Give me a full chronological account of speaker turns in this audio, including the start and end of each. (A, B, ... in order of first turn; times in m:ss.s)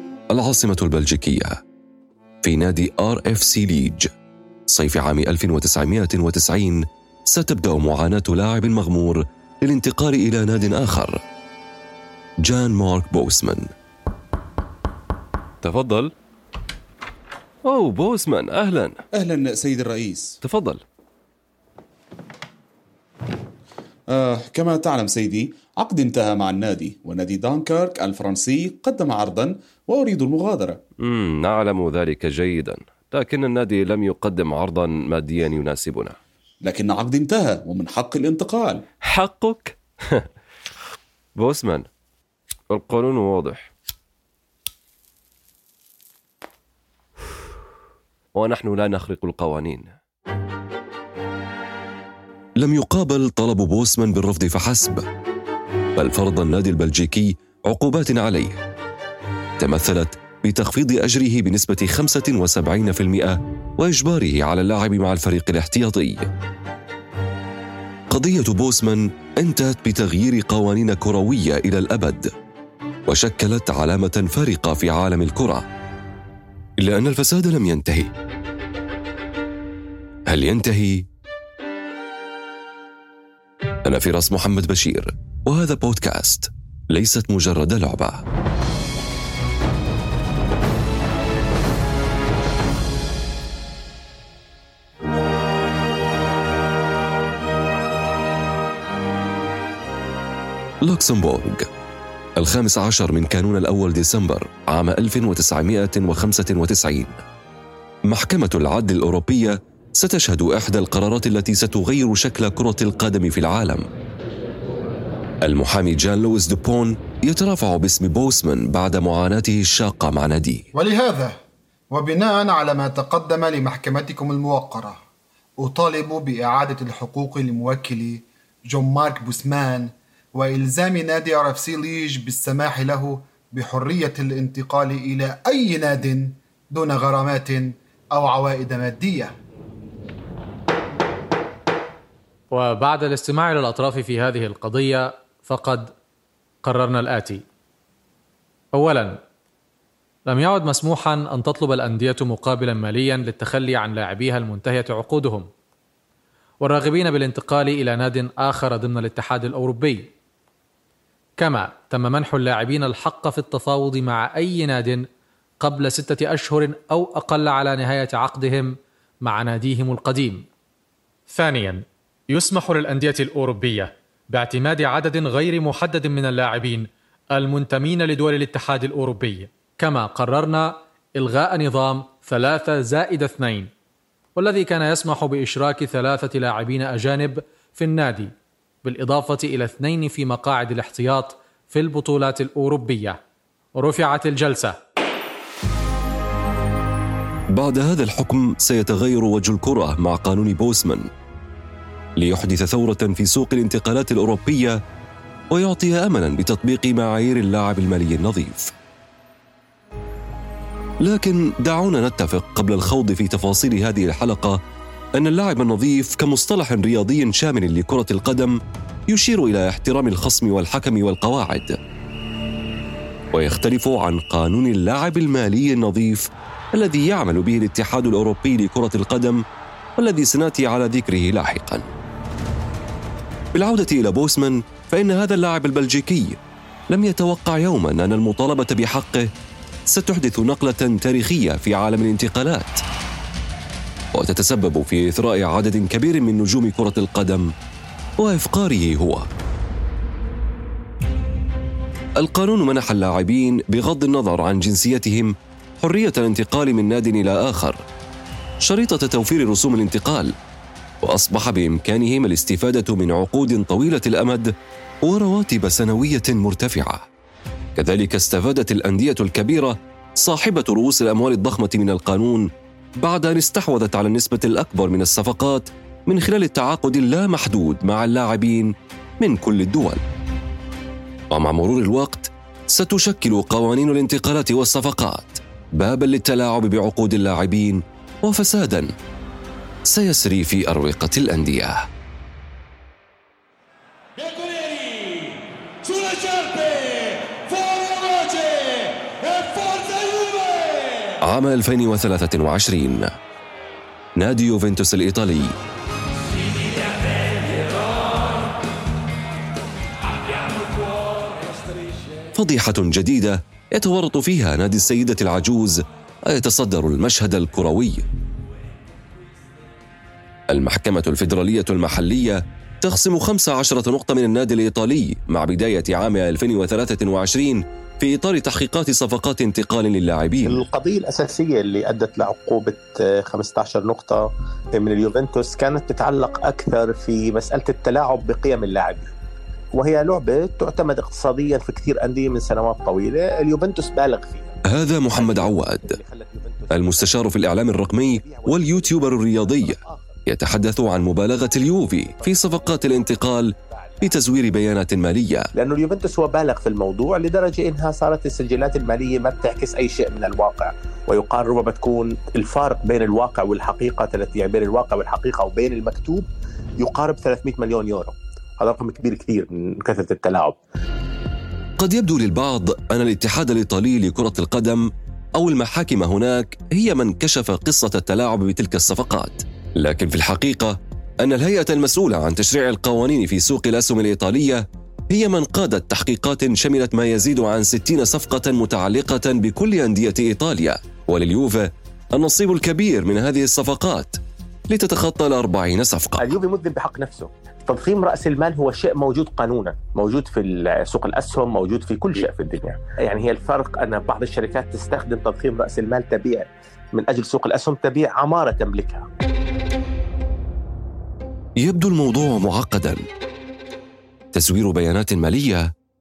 0:00.3-0:01.5 A
0:02.4-0:04.1 A
0:04.7-0:11.2 A
0:12.4-0:13.7 A
0:15.6-0:16.1 A
0:17.6-0:19.0 A
0:19.1-0:20.4 B
0:20.4-0:20.8 A
0:24.1-0:30.8 B
0:31.0-0:36.2 A
0:36.6-0:38.8 B
0:39.0-0:40.2 A
0:41.4-0:41.9 A
0:42.7-0:43.7 A
0:48.3-0:50.0 A
0:52.6-0:55.0 A
0:56.0-0:58.6 A
0:59.6-1:06.3 A
1:08.1-1:12.3 A
1:13.1-1:15.6 A
1:16.8-1:18.1 A
1:20.3-1:21.0 A
1:23.8-1:28.2 A
1:40.8-1:41.7 A
1:42.4-1:47.2 A
1:48.1-1:53.8 A
1:55.4-2:00.6 A
2:00.7-2:01.4 C
2:01.9-2:05.0 C
2:05.6-2:19.3 C
2:22.5-2:25.9 D
2:26.6-2:27.4 D
2:28.7-2:29.2 D
2:30.3-2:35.5 D
2:36.6-2:40.1 D
2:41.4-2:45.0 D
2:45.6-2:48.7 D
2:49.2-2:50.4 D
2:51.3-3:03.7 D
3:04.4-3:08.3 D
3:08.8-3:13.2 D
3:13.8-3:14.7 D
3:17.5-3:21.1 A
3:22.2-3:24.8 A
3:25.5-3:28.7 A
3:31.0-3:34.6 A
3:35.2-3:38.6 A
3:39.1-3:41.8 A
3:43.3-3:49.4 A
3:50.0-3:51.8 A
3:53.5-3:56.4 A
3:56.9-3:59.3 A
3:59.9-4:02.8 A
4:04.1-4:07.5 A
4:08.2-4:09.3 A
4:12.2-4:17.8 A
4:18.6-4:20.3 A
4:21.0-4:24.5 A
4:25.0-4:27.0 A
4:27.8-4:40.0 A
4:41.3-4:48.9 A
4:49.9-4:51.8 A
5:01.2-5:03.1 A
5:04.2-5:05.5 A
5:12.3-5:18.0 A
5:20.5-5:30.6 A
5:30.4-5:39.1 E
5:39.7-5:44.6 E
5:44.6-5:46.0 A
5:45.1-5:50.2 E
5:46.7-5:55.5 A
5:52.2-5:54.2 E
5:55.5-6:06.3 E
6:06.8-6:10.5 E
6:11.8-6:34.2 A
6:34.7-6:36.3 A
6:36.2-6:49.0 E
6:51.6-6:53.0 A
6:54.3-6:55.7 A